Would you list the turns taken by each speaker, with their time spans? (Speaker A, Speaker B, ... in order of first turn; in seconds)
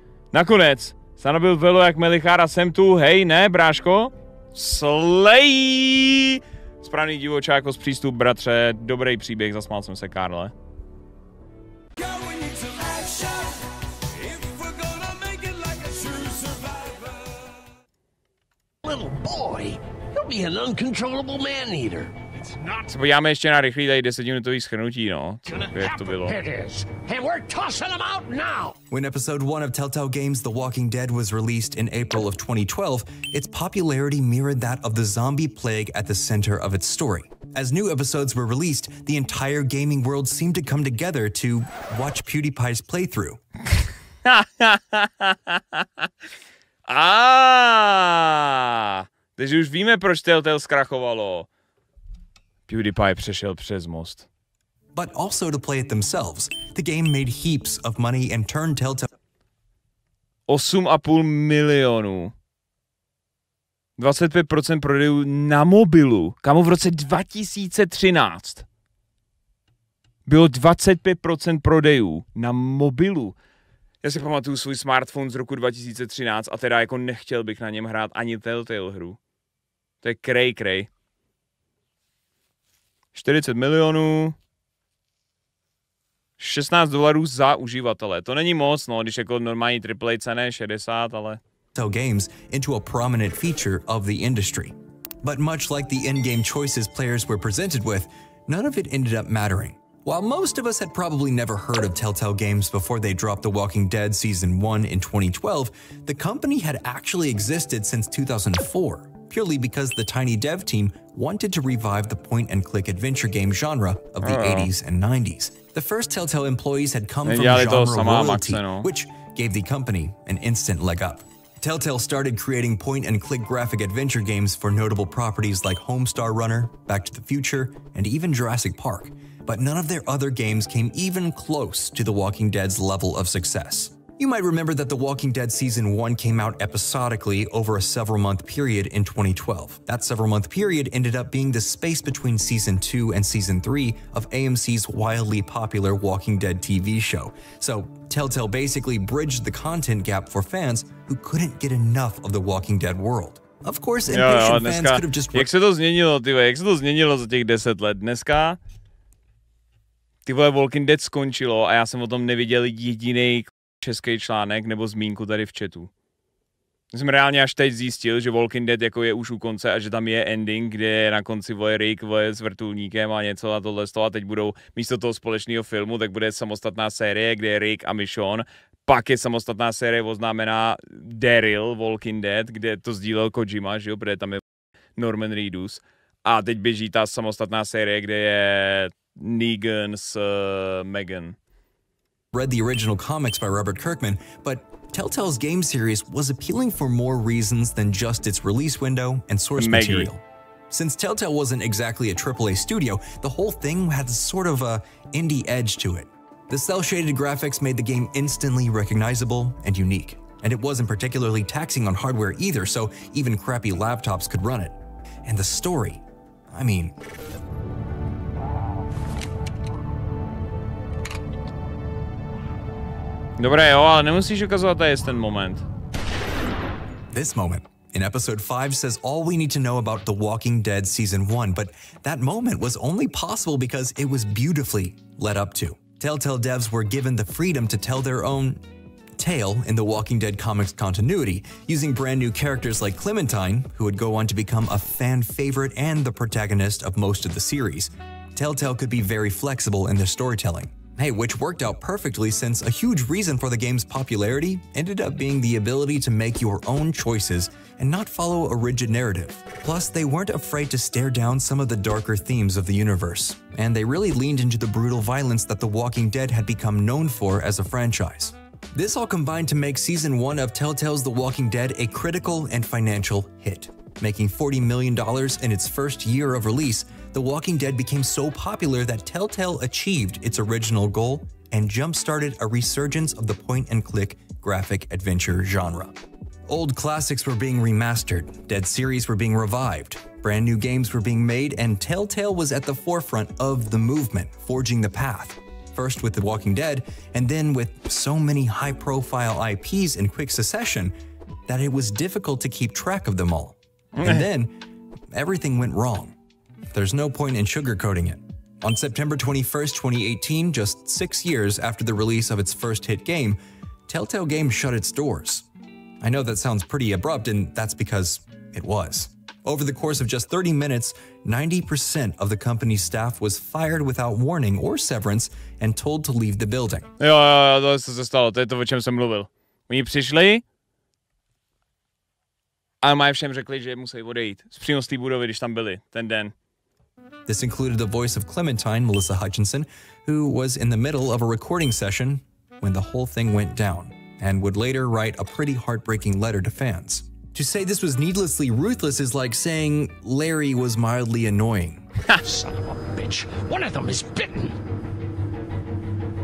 Speaker A: 0.3-10.5, 22.9-26.4, 43.8-46.1, 46.9-51.5, 52.7-54.3, 60.5-62.3, 64.0-68.7, 70.3-73.4, 74.0-79.2, 80.0-80.9, 83.1-84.4, 86.4-91.4, 114.2-114.7, 117.2-118.9, 154.1-158.6, 160.3-165.9, 166.9-184.4, 185.0-191.4, 199.6-200.1, 223.4-225.6, 304.0-304.3, 327.0-330.4, 332.8-336.3
Speaker B: 12.1-13.3, 14.2-17.0, 18.8-22.9, 25.5-28.8, 352.2-354.6
Speaker C: 28.9-43.4, 54.9-59.1, 91.8-155.5, 192.3-217.0, 227.1-238.6, 239.2-301.0, 301.5-306.1, 306.7-315.5, 316.0-326.9, 337.3-351.8